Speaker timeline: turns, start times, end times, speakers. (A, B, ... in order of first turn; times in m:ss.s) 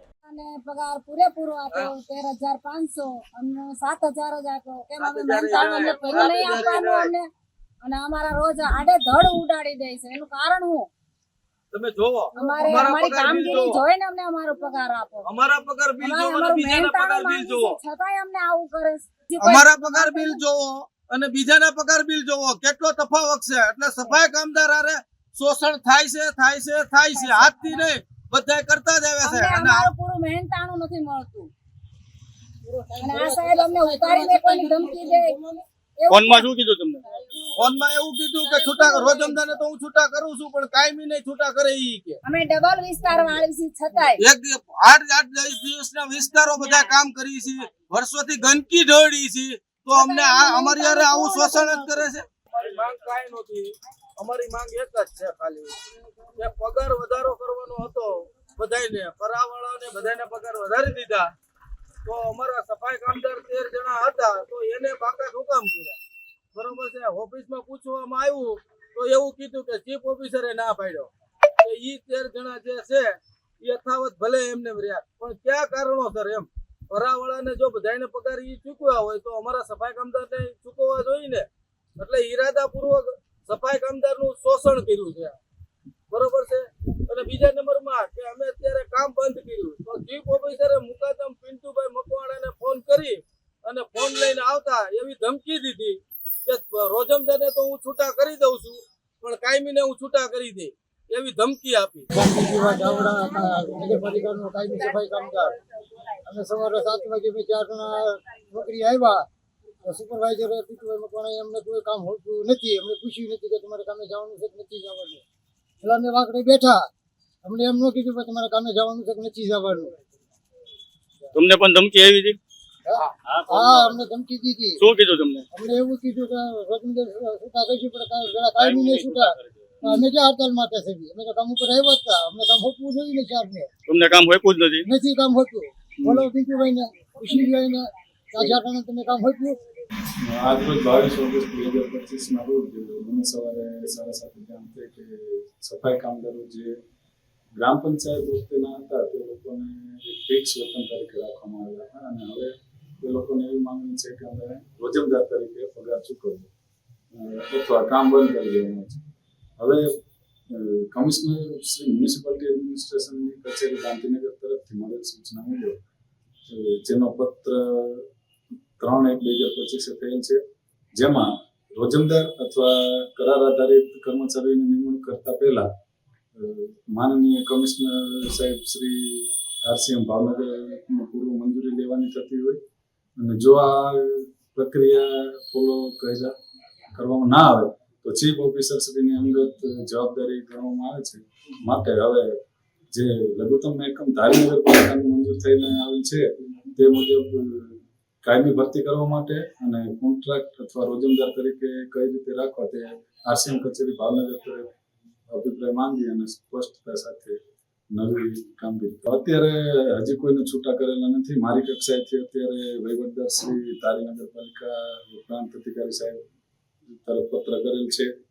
0:00.2-0:07.3 A
0:05.0-0:07.1 B
0:07.8-0:10.9 A
0:11.7-0:13.8 B
0:12.4-0:15.3 A
0:15.2-0:17.8 B
0:16.0-0:20.4 A
0:19.4-0:29.9 B
0:27.1-0:27.9 A
0:29.2-0:31.5 A
0:32.8-0:35.1 C
0:33.0-0:35.4 A
0:36.0-0:36.5 A
0:36.1-0:37.0 D
0:37.2-0:37.5 A
0:37.6-0:42.2 B
0:38.4-0:39.4 A
0:42.2-0:44.2 A
0:44.2-0:55.7 B
0:50.0-0:52.1 A
0:56.4-1:01.3 B
1:02.0-1:06.0 B
1:06.5-1:25.4 B
1:26.1-1:42.1 B
1:42.1-1:45.6 C
1:42.5-1:44.2 A
1:45.0-1:45.4 A
1:46.3-1:49.3 C
1:49.8-1:55.2 C
1:55.8-1:56.9 C
1:57.4-2:00.0 C
2:01.4-2:02.4 D
2:02.9-2:04.8 C
2:03.2-2:04.0 D
2:04.8-2:05.5 D
2:05.5-2:13.7 C
2:08.6-2:10.0 D
2:13.9-2:14.9 D
2:14.9-2:19.6 C
2:16.0-2:16.3 D
2:20.2-2:26.8 E
2:27.5-2:36.5 E
2:37.1-2:39.0 E
2:39.6-2:39.9 E
2:40.5-2:45.8 E
2:46.5-2:48.1 E
2:48.8-2:50.4 E
2:51.0-2:55.7 E
2:56.4-3:02.6 E
3:03.2-3:06.3 E
3:07.0-3:12.4 E
3:12.9-3:24.7 E
3:25.3-3:27.4 E
3:27.9-3:36.2 E
3:36.9-3:38.1 E